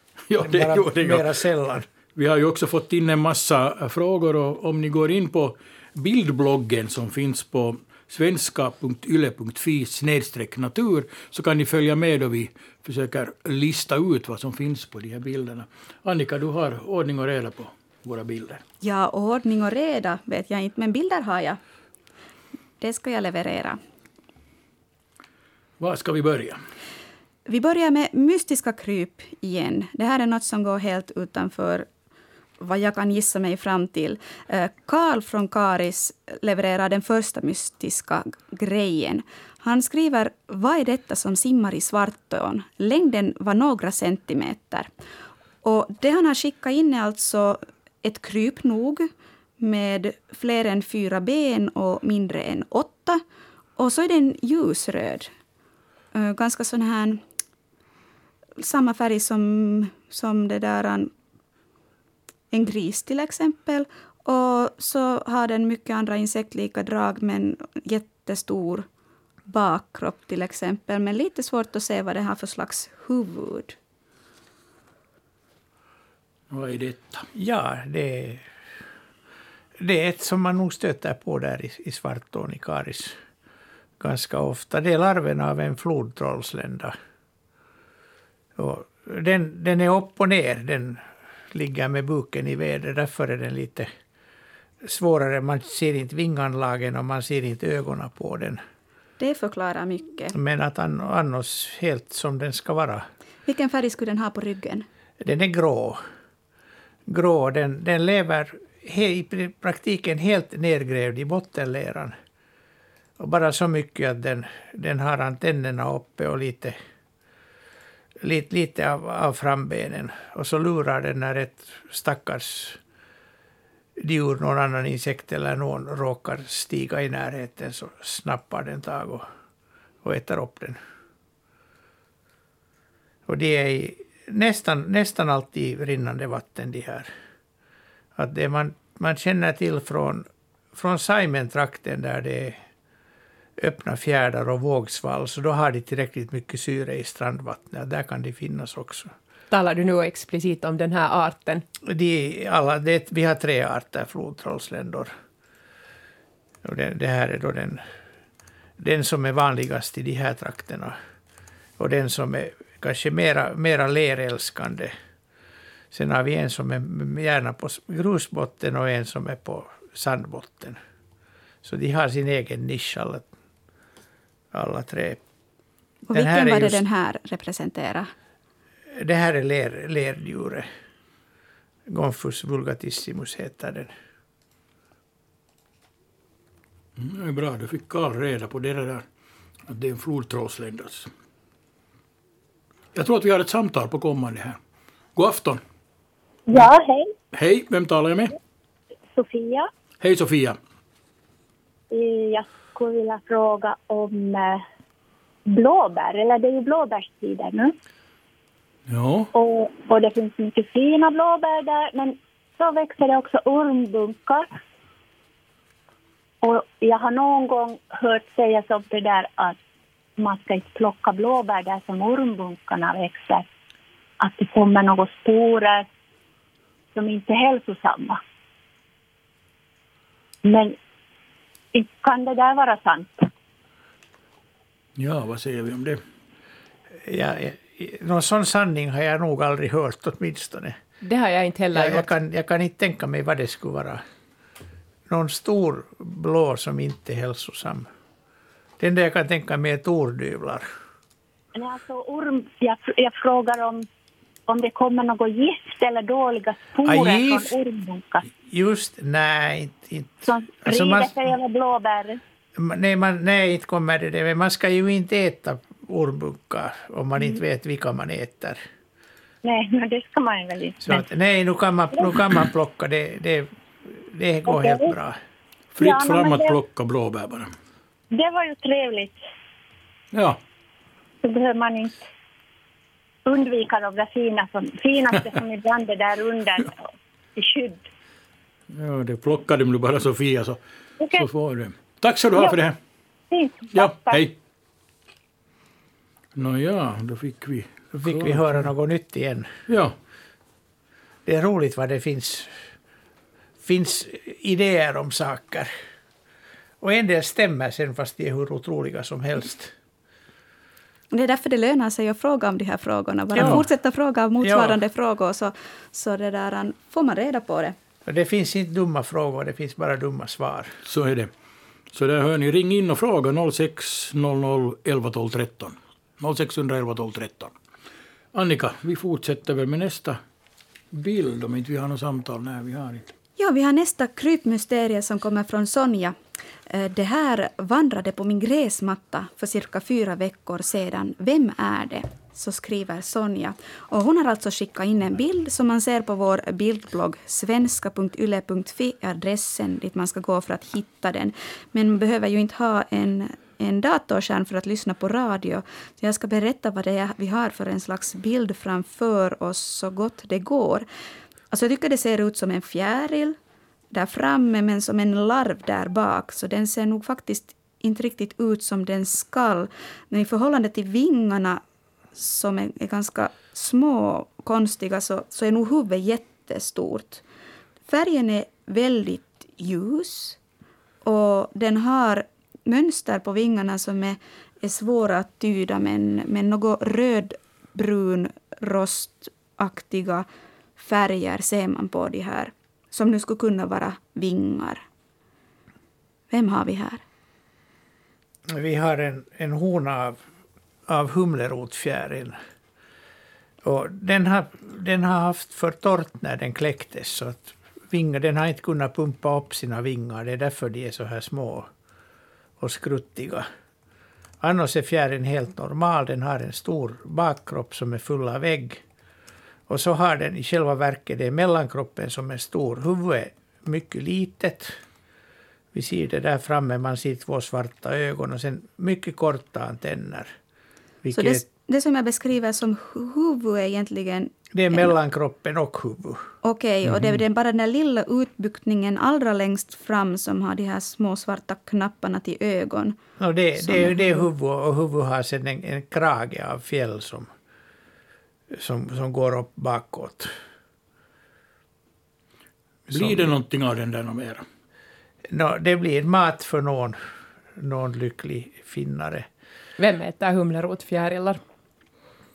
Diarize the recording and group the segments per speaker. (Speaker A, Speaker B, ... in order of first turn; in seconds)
Speaker A: 0.3-1.3, 2.2-18.6, 25.8-26.6, 76.5-77.3, 187.0-189.0, 189.7-191.1, 192.9-194.6, 195.2-195.6, 197.3-198.3, 200.0-200.6, 208.9-209.3, 235.0-236.0, 275.8-277.5, 280.1-280.4, 288.7-290.6, 291.1-292.8, 293.7-294.4, 296.4-298.7, 299.7-299.9, 320.9-321.3, 321.9-327.5, 328.3-330.2, 330.9-333.1, 452.9-454.4
Speaker B: 0.4-1.9, 77.3-78.5, 79.8-83.2, 84.0-87.0, 88.6-93.9, 94.8-98.6, 100.3-103.1, 105.2-106.0, 107.1-112.2, 113.2-116.8, 118.2-122.8, 124.0-129.3, 130.0-130.8, 133.3-137.1, 138.2-142.6, 143.6-149.1, 151.8-155.1, 156.6-157.8, 158.8-161.0, 161.8-164.9, 165.9-170.8, 171.6-173.3, 174.5-175.2, 176.1-176.8, 178.9-180.7, 181.9-183.9, 237.0-240.8, 241.7-244.0, 245.1-247.9, 248.8-250.7, 256.9-257.5, 258.5-261.2, 262.6-268.6, 270.8-275.2, 297.9-299.5, 301.3-302.6, 303.6-305.7, 306.8-309.8, 313.3-313.6, 314.4-314.8, 318.1-320.7, 398.5-400.2, 400.9-402.4, 403.6-411.7, 412.6-413.5, 414.4-418.8, 419.7-424.8, 425.7-430.3, 431.0-431.4, 434.5-436.3, 443.2-447.3, 448.5-450.3, 452.9-453.3, 455.3-457.0, 457.6-459.3
Speaker C: 18.8-21.6, 22.8-23.8, 27.5-31.9, 32.6-44.9, 45.6-53.2, 53.8-55.3, 56.1-57.2, 58.6-61.1, 62.5-68.9, 69.5-73.8, 99.2-100.3, 103.5-104.8, 176.1-178.1, 311.1-317.8, 333.4-336.2, 336.7-360.9, 361.5-363.4, 363.9-371.6, 372.1-377.2, 377.9-380.4, 381.0-394.8, 396.3-397.0, 431.1-434.9, 436.4-443.0, 443.6-444.3
Speaker D: 149.5-151.6, 241.0-242.1, 459.8-461.4
Speaker E: 196.5-197.1, 199.1-199.7, 201.9-204.6, 205.5-207.7, 209.3-214.5, 216.4-219.6, 220.2-223.5, 224.2-225.9, 226.9-228.2, 230.4-230.8, 231.7-233.3, 251.6-253.9, 254.5-258.2, 260.2-262.2, 269.4-271.0, 271.9-272.2, 274.5-274.9, 275.8-276.6, 278.1-279.2, 281.2-282.0, 283.2-286.7, 287.4-287.9, 291.0-291.3, 292.3-292.6, 293.3-294.2